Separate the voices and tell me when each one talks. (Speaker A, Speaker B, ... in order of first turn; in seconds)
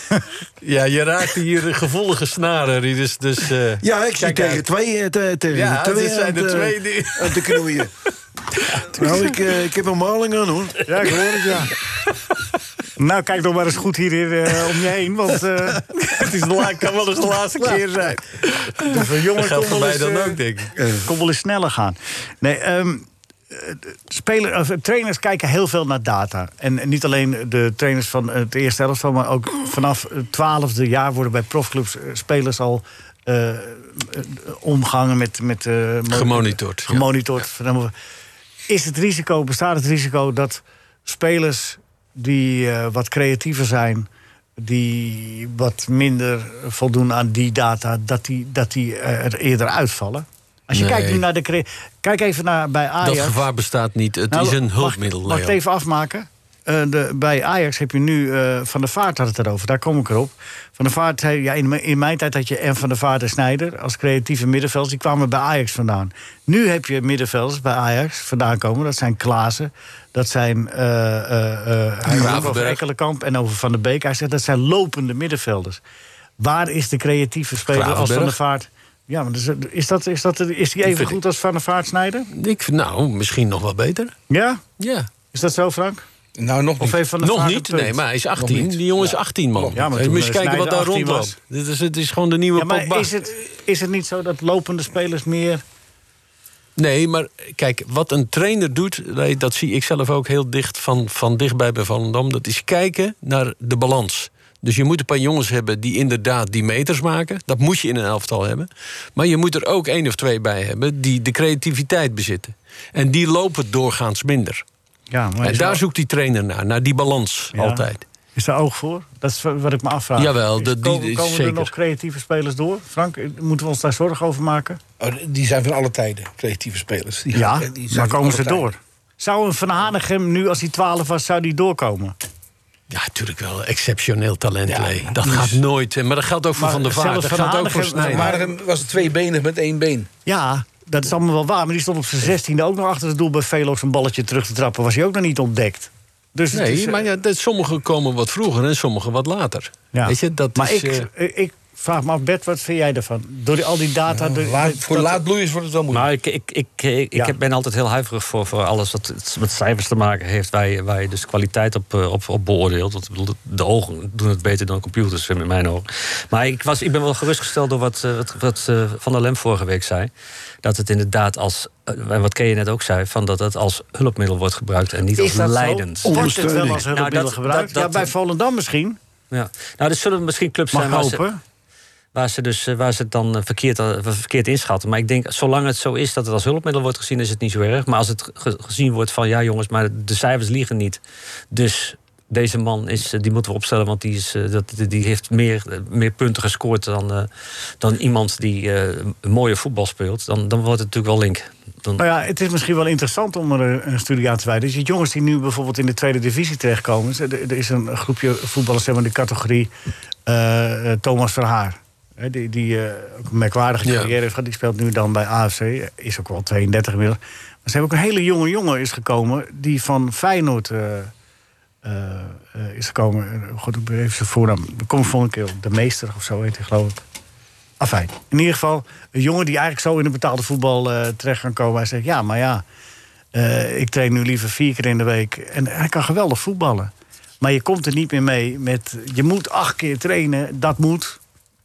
Speaker A: 0.6-4.6, 5.5-7.6, 15.9-20.7, 36.1-37.0, 50.7-51.2, 53.0-55.6, 72.1-72.8, 77.6-78.4, 80.8-81.2, 82.3-84.1, 84.8-85.1, 87.2-93.1, 96.8-114.6, 115.4-118.0, 120.2-121.7, 132.9-138.3, 146.5-151.1, 213.8-214.1
Speaker B: 3.8-7.9, 8.9-11.3, 20.8-21.0, 72.1-72.4, 176.0-176.9
Speaker C: 10.8-11.7, 12.9-20.4, 21.0-37.9, 38.7-53.4, 54.3-75.8, 76.4-82.3, 84.3-84.6, 85.3-86.0, 86.8-88.0, 89.7-91.3, 92.6-95.6, 115.1-115.8, 117.5-117.8, 118.3-124.8, 127.3-132.2, 136.6-138.5, 140.3-147.0, 149.9-155.2, 175.2-179.0, 180.7-181.4, 202.0-209.7, 210.2-221.1, 221.8-227.0, 227.8-232.6, 233.3-241.2
Speaker D: 86.4-87.0, 88.4-89.8, 125.0-128.6, 134.7-135.6, 138.1-140.1, 154.1-156.1
Speaker E: 155.9-170.1, 170.6-176.3, 176.9-178.1, 179.3-181.3, 182.1-197.3, 197.8-202.0